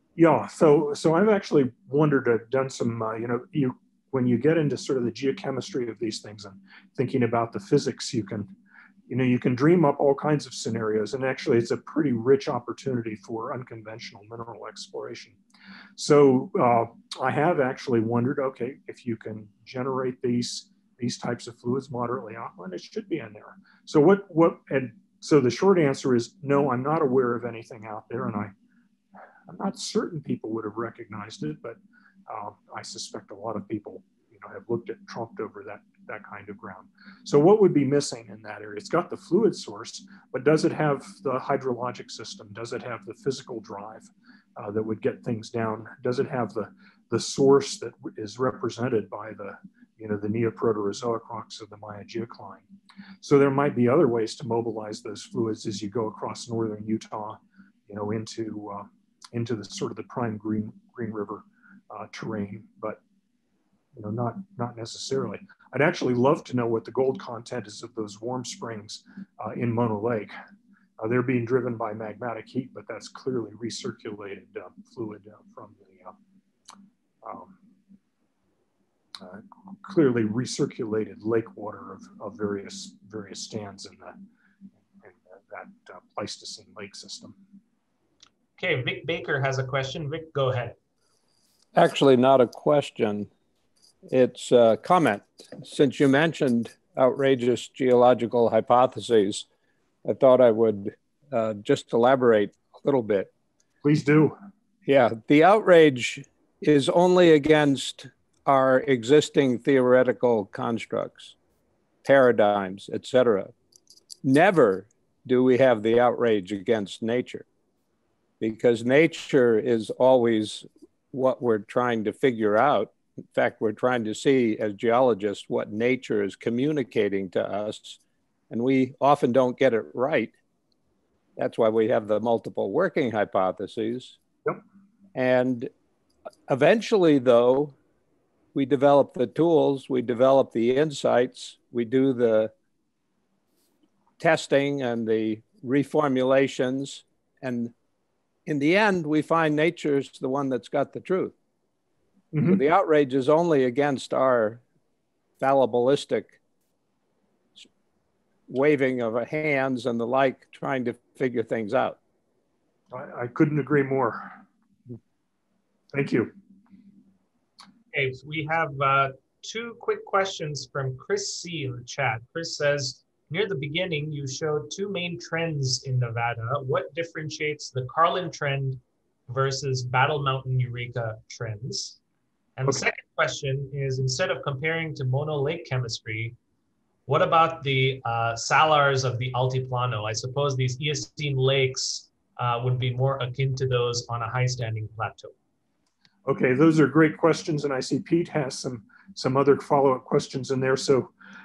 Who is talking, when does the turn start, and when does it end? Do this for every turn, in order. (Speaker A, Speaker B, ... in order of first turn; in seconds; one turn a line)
Speaker A: 0.2-8.5
Speaker A: 9.1-15.4
Speaker A: 16.0-28.5
Speaker A: 29.5-52.6
Speaker A: 53.2-63.0
Speaker A: 64.0-70.3
Speaker A: 71.0-76.2
Speaker A: 77.2-77.6
Speaker A: 79.2-84.2
Speaker A: 85.0-87.4
Speaker B: 88.6-90.8
Speaker C: 91.8-93.3
Speaker C: 94.1-99.5
Speaker C: 100.0-103.3
Speaker A: 103.8-104.4
Speaker C: 104.9-111.3
Speaker C: 112.0-113.5
Speaker C: 114.2-117.5
Speaker C: 118.4-128.0
Speaker C: 128.5-130.3
Speaker C: 131.4-134.2
Speaker C: 135.2-135.7
Speaker C: 136.5-137.8
Speaker C: 138.5-142.5
Speaker C: 144.2-147.7
Speaker C: 148.5-151.3
Speaker A: 152.3-152.6
Speaker C: 152.5-154.6
Speaker C: 155.4-156.4
Speaker C: 158.5-162.0
Speaker A: 162.9-164.4
Speaker A: 165.9-166.3
Speaker B: 167.9-182.0
Speaker B: 182.6-186.4
Speaker B: 187.1-195.3
Speaker A: 196.3-201.1